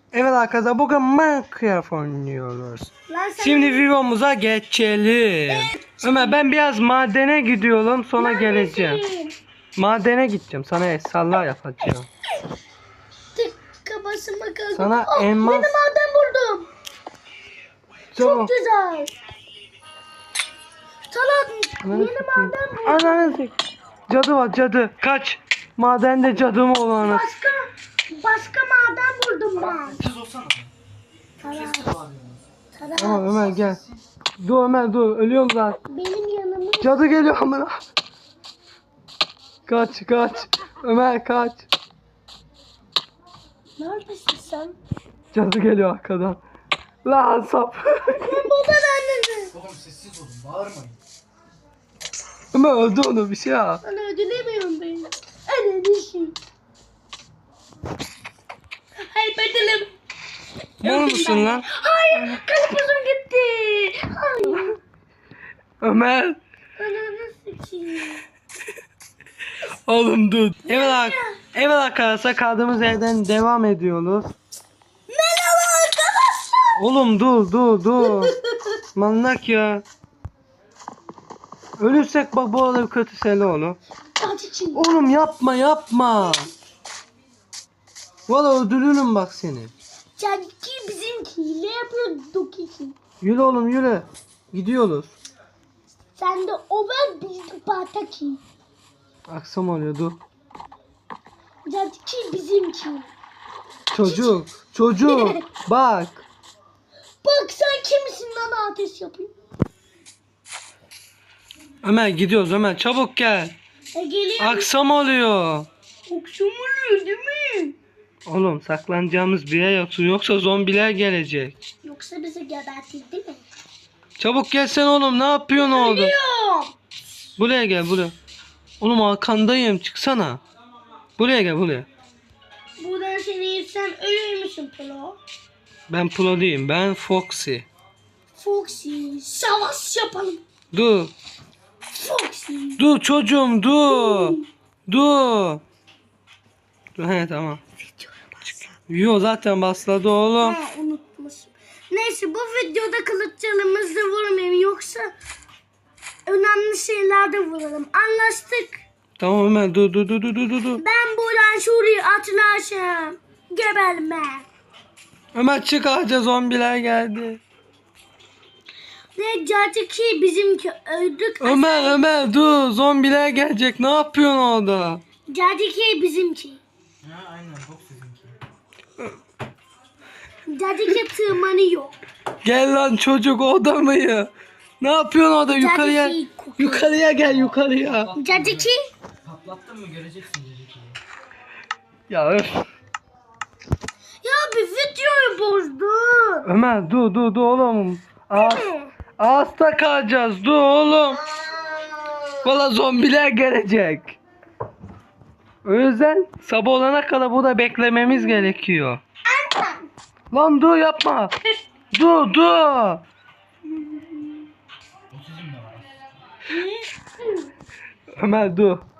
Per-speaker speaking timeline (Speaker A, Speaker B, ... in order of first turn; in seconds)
Speaker A: 0.1-9.0, 9.8-12.1, 14.7-15.7, 18.1-18.5, 21.8-23.5, 24.1-27.3, 33.0-33.8, 34.4-35.8, 36.8-37.8, 39.7-41.7, 45.3-46.4, 47.0-48.4, 52.5-53.8, 60.8-62.4, 65.8-66.4, 69.8-74.3, 76.8-78.3, 79.0-79.8, 81.8-83.8, 84.7-86.5, 88.3-89.7, 93.2-95.2, 99.3-100.2, 103.9-106.2, 111.8-113.6, 114.4-115.7, 118.3-121.6, 124.2-126.1, 127.4-128.2, 128.8-130.4, 131.2-131.9, 135.9-137.7, 140.7-141.1, 142.8-145.6, 147.0-147.6, 148.9-150.6, 159.2-160.8, 165.3-167.4, 171.4-175.0, 182.4-188.1, 192.1-192.7, 196.4-201.2, 202.4-204.2, 205.6-209.0, 210.3-211.3, 211.9-213.0, 218.1-218.8
Speaker B: 3.1-3.9, 5.5-6.4, 8.2-9.4, 13.3-16.7, 18.2-19.1, 21.1-23.4, 27.0-30.1, 31.4-32.0, 32.8-33.4, 35.9-37.0, 43.8-44.8, 48.1-49.6, 53.8-56.4, 59.0-59.9, 60.8-64.8, 66.8-68.2, 70.7-71.4, 75.1-76.8, 78.0-78.8, 84.2-84.9, 90.2-93.0, 96.2-98.4, 101.7-103.1, 104.0-104.4, 105.0-105.4, 107.2-109.3, 113.9-114.7, 116.1-117.8, 121.8-123.4, 125.5-126.8, 132.8-135.2, 138.3-140.4, 141.9-142.8, 143.9-144.5, 147.8-148.7, 150.4-155.1, 156.3-158.8, 160.8-164.5, 169.2-172.0, 175.3-176.6, 180.5-182.0, 185.6-187.0, 188.1-188.9, 194.2-196.5, 198.3-198.9, 201.3-202.3, 208.1-208.6, 209.2-209.9, 216.5-217.5
Speaker C: 29.9-30.7, 31.4-32.4, 49.6-51.0, 177.0-178.3, 188.2-188.7, 189.3-191.0, 215.1-215.8